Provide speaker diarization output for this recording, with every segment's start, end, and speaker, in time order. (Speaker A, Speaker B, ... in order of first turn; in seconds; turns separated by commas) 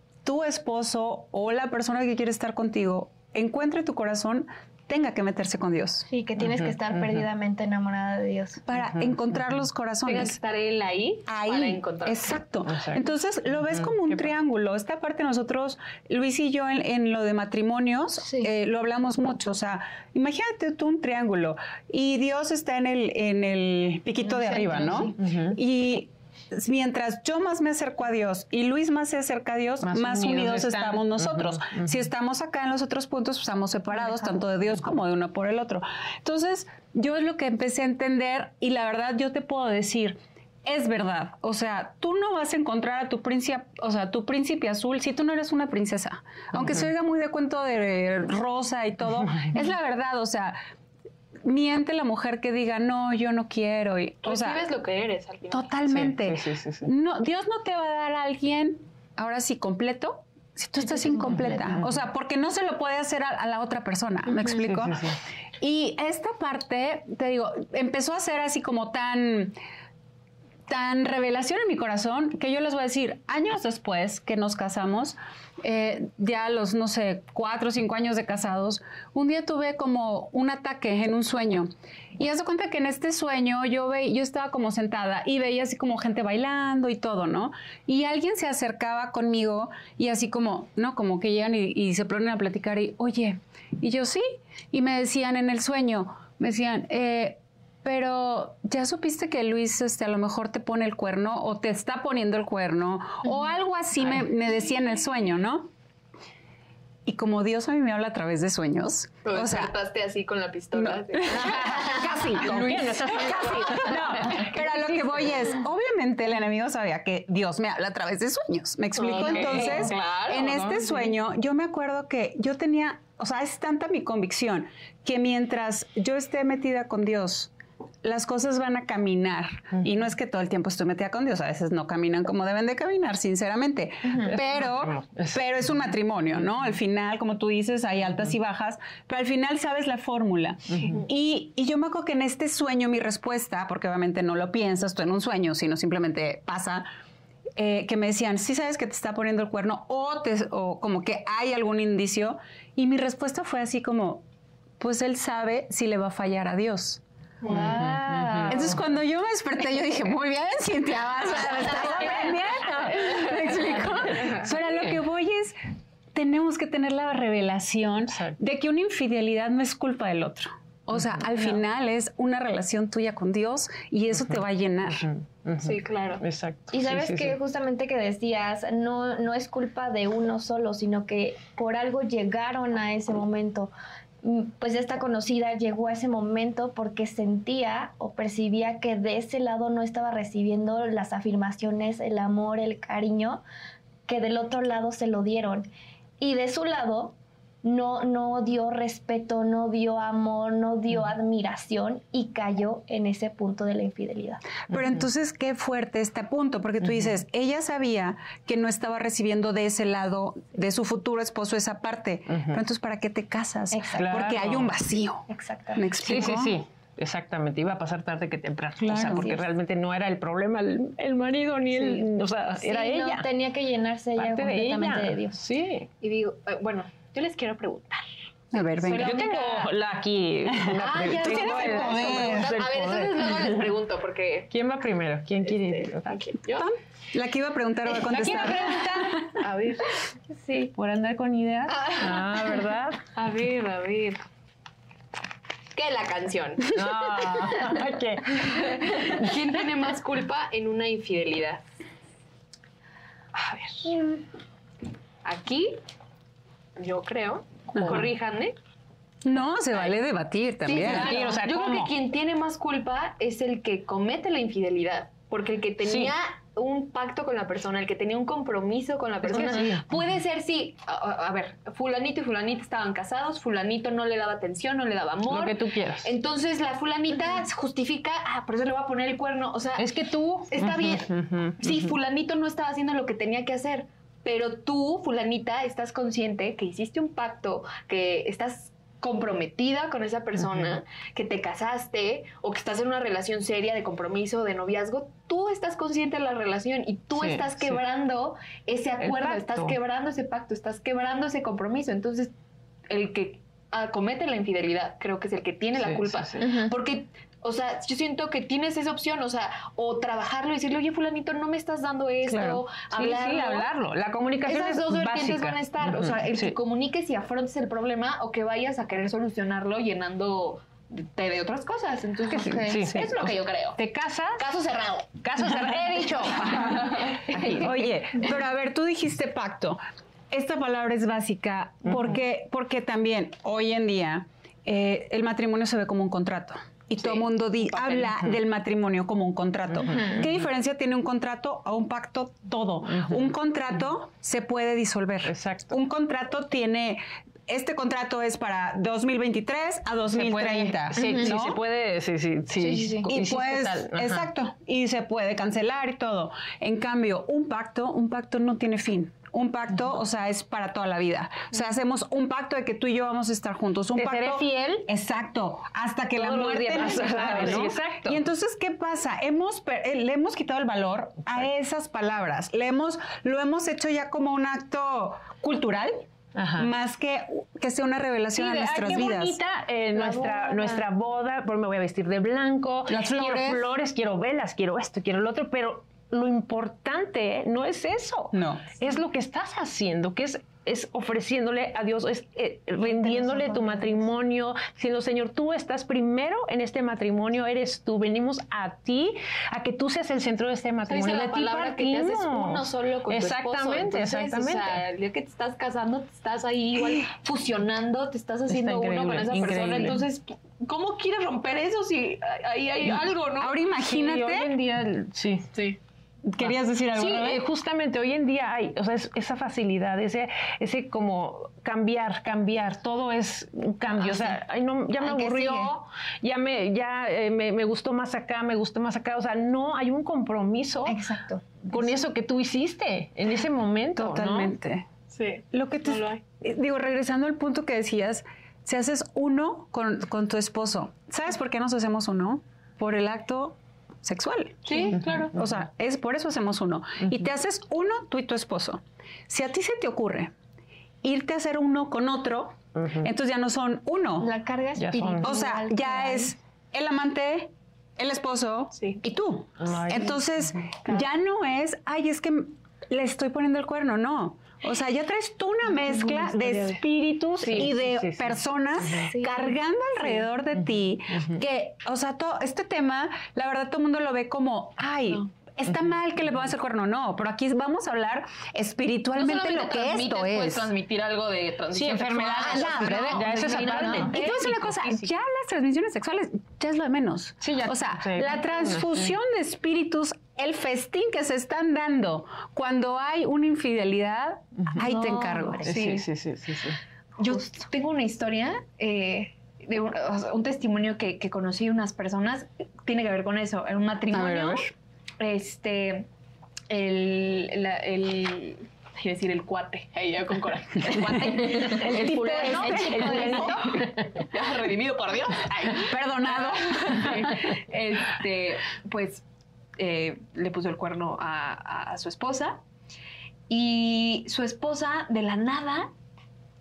Speaker A: 0.2-6.0, Speaker B: 6.1-8.6, Speaker A: 8.7-10.4, Speaker C: 10.0-12.3, Speaker A: 11.3-50.6, Speaker D: 12.7-12.9, Speaker D: 24.4-25.6, Speaker D: 29.8-31.9, Speaker A: 51.4-54.6, Speaker C: 54.2-55.7, Speaker A: 55.5-65.1, Speaker D: 55.9-56.9, Speaker D: 64.7-65.2, Speaker A: 65.6-69.6, Speaker A: 70.7-105.7, Speaker A: 107.0-109.7, Speaker C: 109.2-114.4, Speaker A: 110.7-127.5, Speaker D: 111.3-115.3, Speaker C: 119.0-120.8, Speaker D: 119.1-119.9, Speaker A: 128.0-146.9, Speaker D: 134.1-135.5, Speaker D: 140.7-141.0, Speaker A: 147.6-154.2, Speaker A: 154.8-157.0, Speaker C: 157.4-158.5, Speaker D: 157.5-158.8, Speaker B: 157.5-158.5, Speaker A: 158.5-165.6, Speaker D: 161.6-163.4, Speaker A: 166.1-175.1, Speaker D: 174.9-177.3, Speaker C: 175.6-176.2, Speaker B: 176.7-183.7, Speaker B: 184.2-193.4, Speaker B: 194.1-195.7, Speaker B: 196.2-204.4, Speaker A: 204.7-216.6, Speaker B: 213.7-214.3, Speaker D: 213.9-214.7, Speaker B: 215.3-215.9, Speaker D: 216.0-223.3, Speaker A: 218.8-219.4, Speaker B: 219.0-219.4, Speaker B: 222.5-225.4, Speaker D: 224.2-225.9, Speaker C: 226.0-228.0, Speaker A: 228.5-229.2, Speaker C: 228.7-229.7, Speaker D: 228.8-233.7, Speaker A: 230.6-232.5, Speaker C: 230.7-234.5, Speaker D: 234.5-236.3, Speaker C: 235.5-236.7, Speaker A: 236.6-239.4, Speaker D: 238.0-239.3, Speaker C: 239.4-240.0, Speaker D: 240.7-243.0, Speaker C: 241.7-242.6, Speaker C: 243.2-244.2, Speaker C: 245.7-246.8, Speaker D: 246.7-249.3, Speaker C: 248.5-251.6, Speaker C: 253.3-254.2, Speaker C: 255.2-255.8, Speaker C: 256.8-258.6, Speaker D: 257.8-258.1, Speaker A: 259.2-261.1, Speaker C: 260.6-279.8, Speaker D: 260.7-261.9, Speaker D: 265.8-266.1, Speaker D: 269.3-269.8, Speaker D: 275.3-276.1, Speaker D: 279.8-281.9, Speaker C: 280.5-302.3, Speaker D: 297.1-297.8, Speaker D: 299.0-299.8, Speaker C: 302.9-313.7, Speaker D: 305.8-306.5, Speaker B: 306.4-306.7, Speaker D: 312.3-316.6, Speaker C: 314.4-323.8, Speaker D: 322.3-324.4, Speaker B: 322.4-322.8, Speaker C: 324.4-327.9, Speaker D: 325.2-327.9, Speaker A: 327.6-351.6, Speaker C: 337.7-338.0, Speaker D: 339.8-340.3, Speaker D: 345.2-345.7, Speaker D: 350.1-354.3, Speaker B: 350.9-351.3, Speaker B: 352.6-353.1, Speaker A: 353.1-376.0, Speaker D: 363.9-364.9, Speaker D: 366.1-368.2, Speaker D: 376.3-376.7, Speaker A: 376.6-379.4, Speaker D: 378.3-404.8, Speaker B: 379.9-380.8, Speaker A: 382.9-383.7, Speaker A: 388.3-388.7, Speaker B: 392.9-394.1, Speaker C: 400.9-413.6, Speaker D: 408.5-410.0, Speaker A: 413.4-414.5, Speaker D: 413.8-415.6, Speaker A: 416.2-417.4, Speaker D: 416.4-431.0, Speaker B: 424.1-424.4, Speaker B: 425.0-425.7, Speaker B: 430.9-431.4, Speaker D: 431.6-434.5, Speaker A: 433.9-434.9, Speaker C: 435.1-436.2, Speaker A: 435.5-450.3, Speaker C: 444.6-445.3, Speaker D: 445.0-445.3, Speaker A: 451.0-454.3, Speaker B: 454.2-456.3, Speaker D: 454.8-455.4, Speaker A: 455.2-480.7, Speaker D: 459.6-460.3, Speaker C: 466.0-466.8, Speaker C: 467.4-467.7, Speaker D: 467.4-468.4, Speaker B: 469.1-469.3, Speaker C: 479.1-485.1, Speaker D: 481.7-484.7, Speaker A: 482.4-495.7, Speaker B: 483.6-484.1, Speaker D: 487.4-489.1, Speaker B: 494.8-495.8, Speaker D: 495.6-496.8, Speaker C: 495.7-496.1, Speaker C: 497.2-506.1, Speaker A: 504.1-504.6, Speaker C: 506.7-513.5, Speaker D: 511.2-514.3, Speaker A: 511.3-513.8, Speaker B: 512.3-513.8, Speaker C: 514.3-519.2, Speaker A: 515.8-517.5, Speaker C: 519.8-522.6, Speaker C: 523.5-525.9